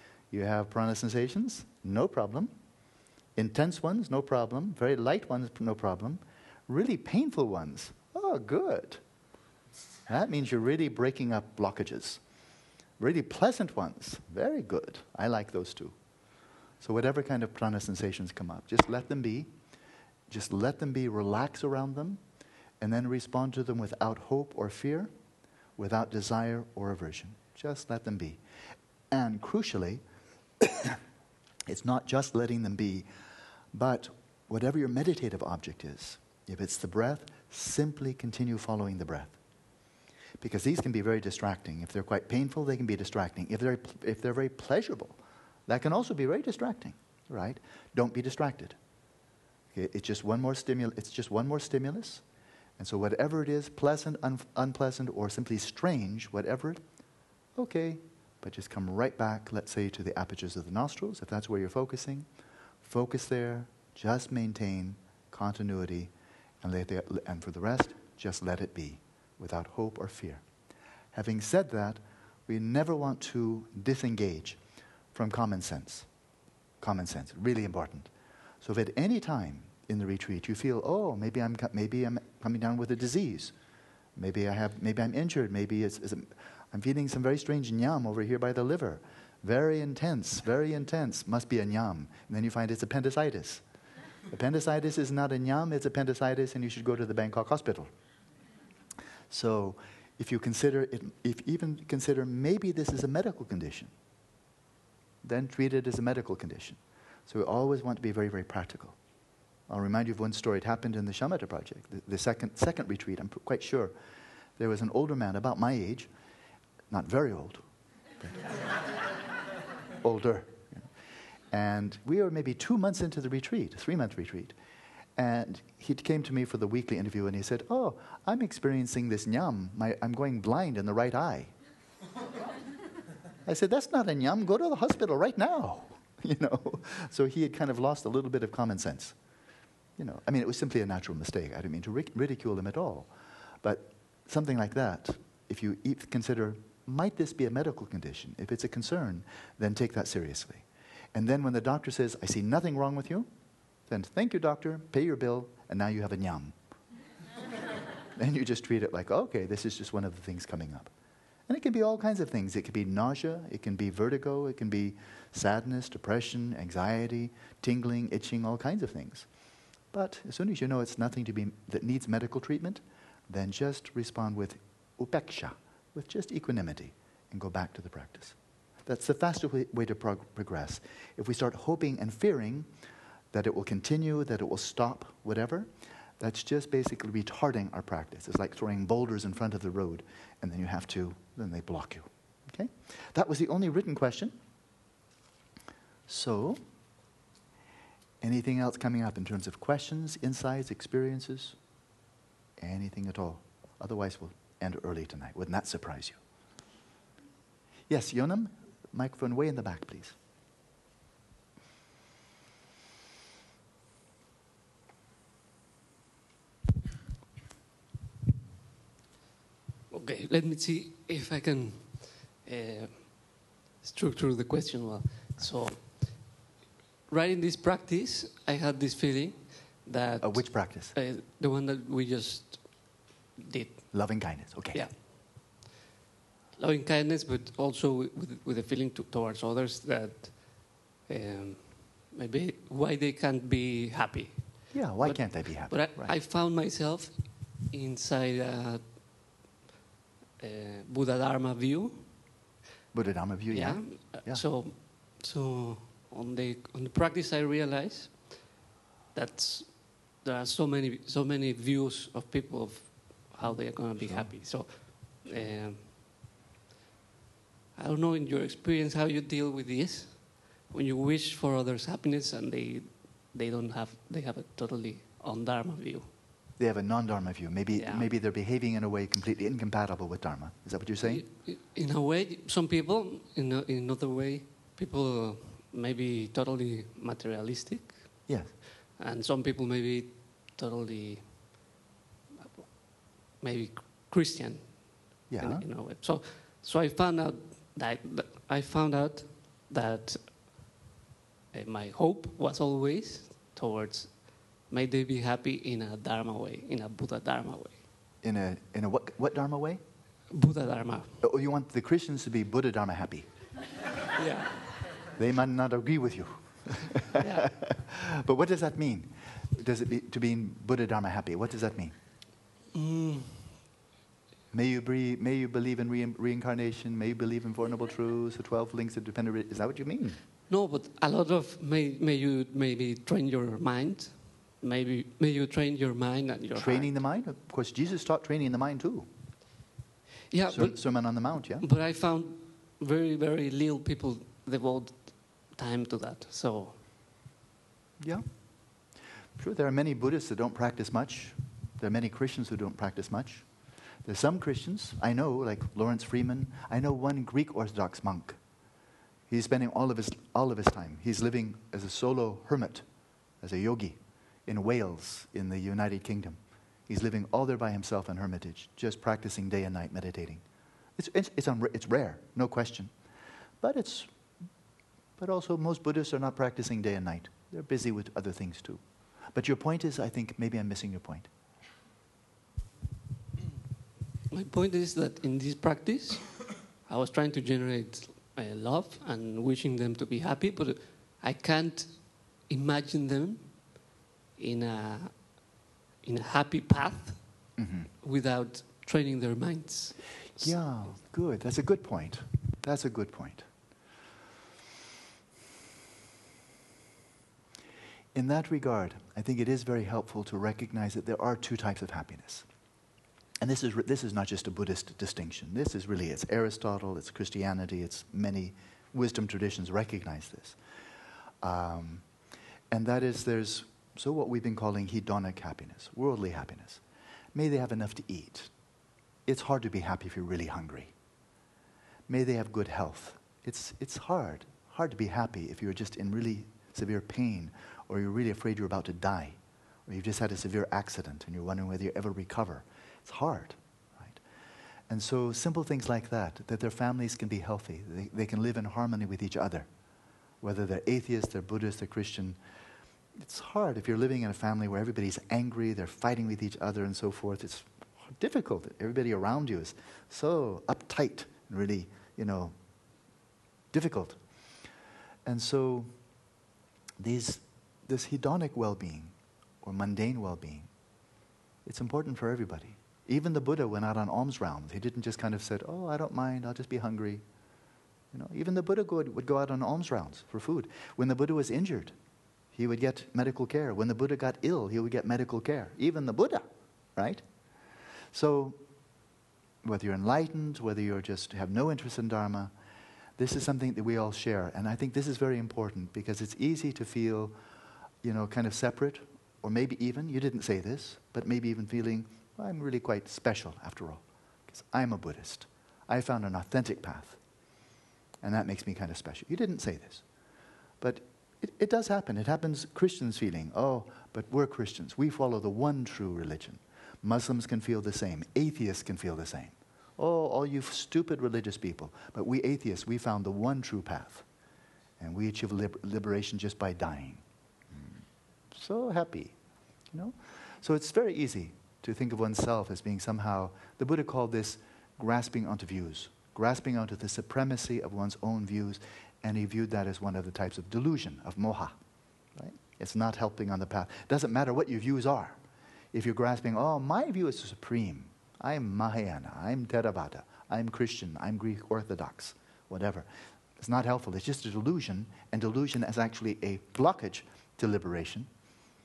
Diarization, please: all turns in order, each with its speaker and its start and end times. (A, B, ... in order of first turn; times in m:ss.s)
0:00.3-0:02.5 A
0:03.4-0:09.0 A
0:10.1-0:12.2 A
0:13.0-0:16.0 A
0:16.8-0:19.5 A
0:20.3-0:22.2 A
0:22.8-0:25.1 A
0:25.8-0:28.4 A
0:29.1-0:30.0 A
0:30.6-0:31.0 A
0:31.7-0:33.0 A
0:33.7-0:39.4 A
0:40.4-0:48.8 A
0:49.7-0:52.2 A
0:52.8-0:56.8 A
0:57.6-1:02.3 A
1:02.8-1:06.1 A
1:06.6-1:10.4 A
1:11.1-1:14.6 A
1:15.1-1:16.1 A
1:16.8-1:18.1 A
1:18.6-1:23.5 A
1:24.2-1:33.6 A
1:34.3-1:37.9 A
1:39.3-1:43.9 A
1:45.2-1:49.0 A
1:49.7-1:53.9 A
1:54.6-1:56.1 A
1:56.9-1:57.6 A
2:00.0-2:00.9 A
2:01.5-2:04.5 A
2:05.2-2:11.5 A
2:13.4-2:19.2 A
2:20.0-2:23.1 A
2:23.6-2:33.3 A
2:33.9-2:36.5 A
2:38.2-2:40.9 A
2:41.5-2:49.3 A
2:49.9-3:02.7 A
3:03.3-3:14.4 A
3:16.1-3:16.6 A
3:18.2-3:21.6 A
3:22.6-3:26.2 A
3:27.9-3:30.2 A
3:39.9-3:46.3 B
3:47.1-3:54.2 B
3:50.2-3:50.9 A
3:53.9-3:54.8 A
3:54.7-3:55.6 B
3:56.6-4:09.0 B
4:04.7-4:06.1 A
4:10.4-4:12.1 B
4:12.9-4:14.4 A
4:13.5-4:18.6 B
4:19.1-4:26.0 B
4:23.4-4:24.3 A
4:27.7-4:36.1 B
4:36.6-4:41.2 A
4:37.7-4:38.1 B
4:41.0-4:48.4 B
4:48.3-4:48.5 A
4:48.9-4:51.7 B
4:52.4-4:52.8 B
4:53.3-5:00.7 B
4:55.3-4:55.6 A
5:01.5-5:07.8 B
5:08.2-5:09.8 A
5:10.3-5:11.2 B
5:11.2-5:13.2 A
5:14.1-5:14.7 B
5:15.2-5:21.9 A
5:17.2-5:17.5 B
5:22.7-5:23.6 B
5:24.5-5:30.2 A
5:30.5-5:37.0 B
5:36.5-5:39.1 A
5:40.3-5:46.8 B
5:40.5-5:41.6 A
5:48.0-5:48.8 A
5:49.4-5:58.4 A
5:59.3-6:02.8 A
6:03.4-6:10.4 A
6:11.0-6:12.9 A
6:13.6-6:14.1 A
6:15.2-6:21.3 A
6:24.3-6:40.5 B
6:37.6-6:37.9 A
6:40.4-6:43.5 A
6:48.1-6:52.4 A
6:53.4-7:00.6 A
7:01.4-7:02.0 A
7:02.7-7:06.8 A
7:07.3-7:08.5 A
7:09.2-7:10.9 A
7:12.1-7:24.2 A
7:24.9-7:29.7 A
7:30.4-7:32.4 A
7:33.2-7:42.5 A
7:43.7-7:44.2 A
7:45.2-7:45.9 A
7:47.0-7:50.7 A
7:51.6-7:57.2 A
7:58.1-8:01.9 A
8:02.5-8:07.2 A
8:08.1-8:08.6 A
8:09.6-8:12.5 A
8:13.2-8:17.3 A
8:18.0-8:27.2 A
8:28.2-8:30.0 A
8:30.8-8:44.2 A
8:45.0-8:49.3 A
8:49.9-9:01.8 A
9:02.3-9:05.4 A
9:05.9-9:13.1 A
9:13.6-9:18.3 A